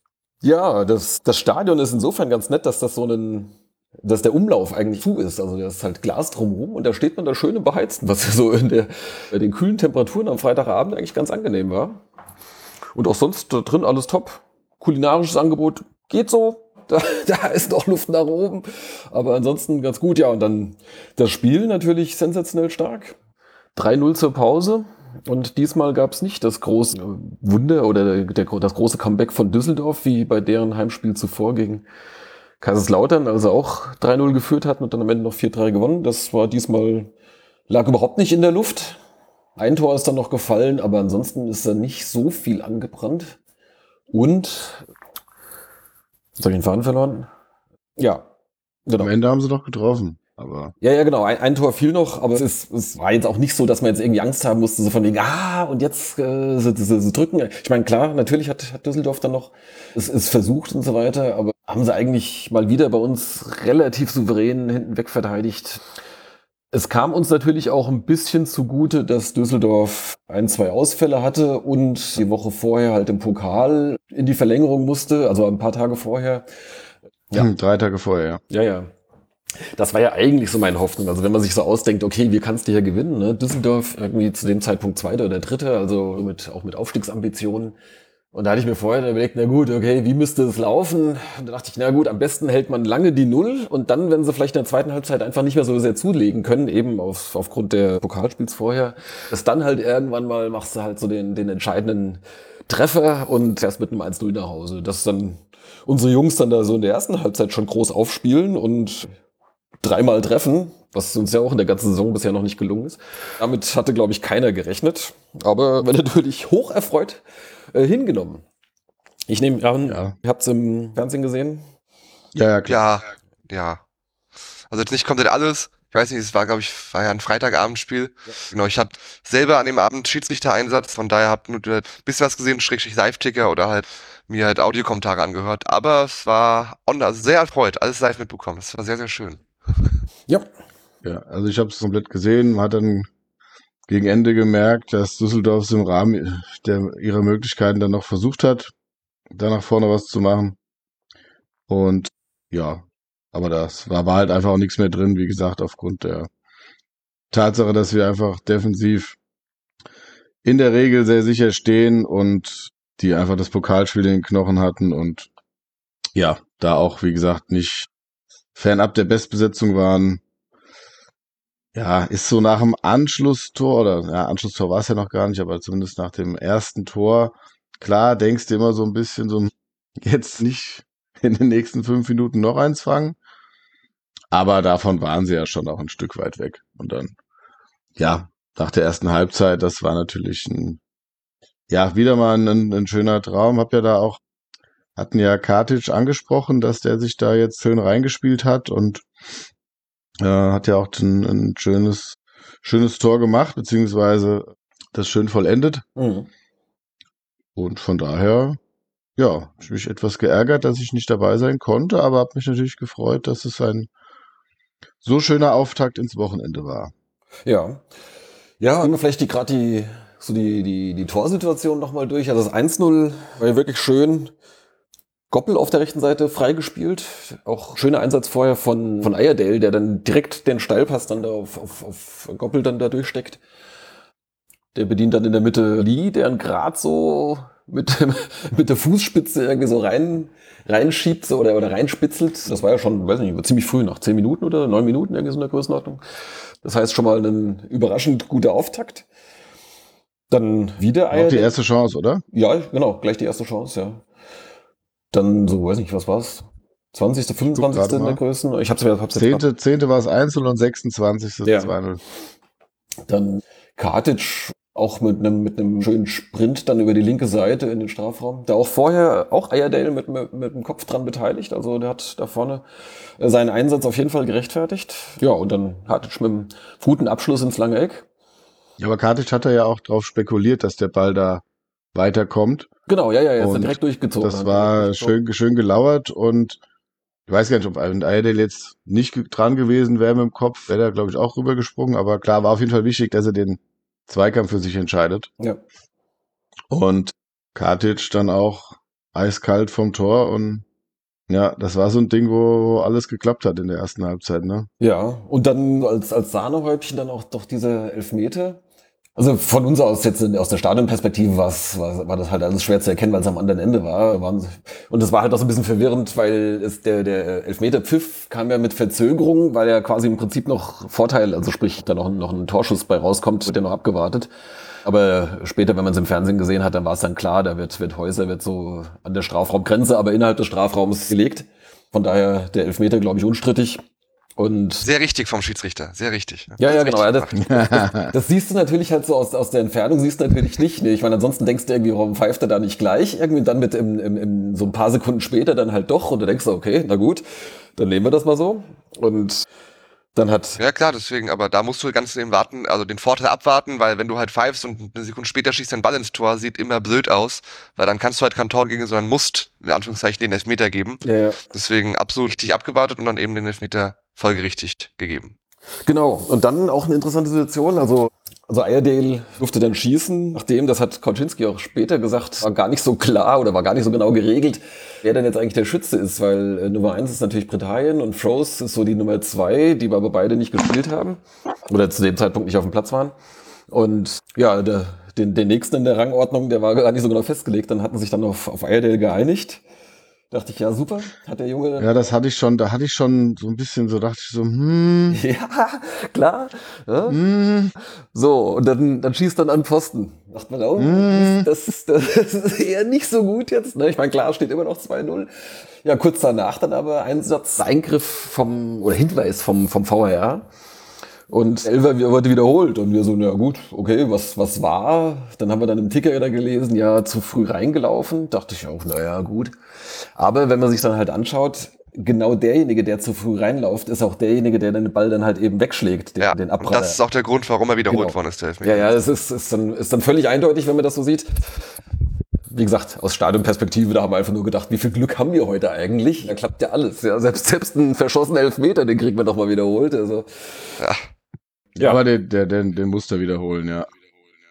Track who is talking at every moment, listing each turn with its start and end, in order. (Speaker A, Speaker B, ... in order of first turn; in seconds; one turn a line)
Speaker A: 0.4-12.0
Speaker A: 12.9-23.1
Speaker A: 23.8-31.9
Speaker A: 32.6-37.1
Speaker A: 37.7-39.0
Speaker A: 39.6-43.4
Speaker A: 44.1-44.9
Speaker A: 46.4-47.3
Speaker A: 48.0-48.3
Speaker A: 48.9-49.1
Speaker B: 49.0-50.7
Speaker A: 50.8-65.8
Speaker A: 66.7-76.5
Speaker B: 77.3-78.4
Speaker A: 78.5-78.9
Speaker A: 79.7-87.8
Speaker A: 88.3-109.2
Speaker A: 109.8-117.2
Speaker A: 117.7-118.4
Speaker A: 119.3-121.7
Speaker B: 119.9-120.1
Speaker B: 122.3-122.8
Speaker C: 122.7-123.8
Speaker C: 124.7-139.9
Speaker B: 141.0-143.1
Speaker B: 143.9-148.7
Speaker B: 149.3-150.6
Speaker B: 151.7-156.3
Speaker B: 157.3-159.2
Speaker B: 160.4-165.3
Speaker B: 166.2-167.9
Speaker B: 168.6-170.2
Speaker B: 171.8-183.2
Speaker B: 184.3-187.1
Speaker B: 188.0-190.8
Speaker B: 191.7-194.2
Speaker B: 195.0-199.1
Speaker B: 200.2-205.8
Speaker A: 206.0-206.3
Speaker B: 207.6-208.6
Speaker B: 209.2-213.9
Speaker B: 215.0-216.9
Speaker A: 217.5-217.8
Speaker A: 218.6-224.3
Speaker A: 225.3-233.4
Speaker A: 234.8-246.0
Speaker A: 246.6-249.1
Speaker A: 250.3-251.6
Speaker B: 251.1-252.2
Speaker A: 252.3-254.0
Speaker A: 255.1-259.4
Speaker B: 257.5-258.2
Speaker B: 259.2-262.0
Speaker A: 261.4-261.7
Speaker A: 263.1-272.6
Speaker A: 273.2-278.1
Speaker B: 278.8-281.4
Speaker B: 281.9-282.7
Speaker A: 282.9-285.2
Speaker B: 283.4-286.6
Speaker B: 287.3-295.3
Speaker B: 296.7-300.6
Speaker B: 301.3-304.7
Speaker A: 304.8-308.6
Speaker A: 309.2-324.3
Speaker A: 324.9-333.8
Speaker A: 334.4-334.9
Speaker C: 334.8-337.4
Speaker A: 336.6-349.4
Speaker B: 337.4-338.1
Speaker A: 350.1-350.6
Speaker C: 350.6-365.3
Speaker A: 361.0-361.4
Speaker A: 365.9-383.1
Speaker A: 383.7-389.6
Speaker A: 390.3-391.9
Speaker B: 391.8-395.2
Speaker A: 395.1-397.2
Speaker B: 397.1-397.7
Speaker A: 398.1-410.5
Speaker B: 400.8-401.5
Speaker A: 411.3-419.6
Speaker A: 420.1-427.0
Speaker C: 426.2-428.9
Speaker A: 427.9-431.5
Speaker A: 432.5-440.8
Speaker B: 441.8-443.9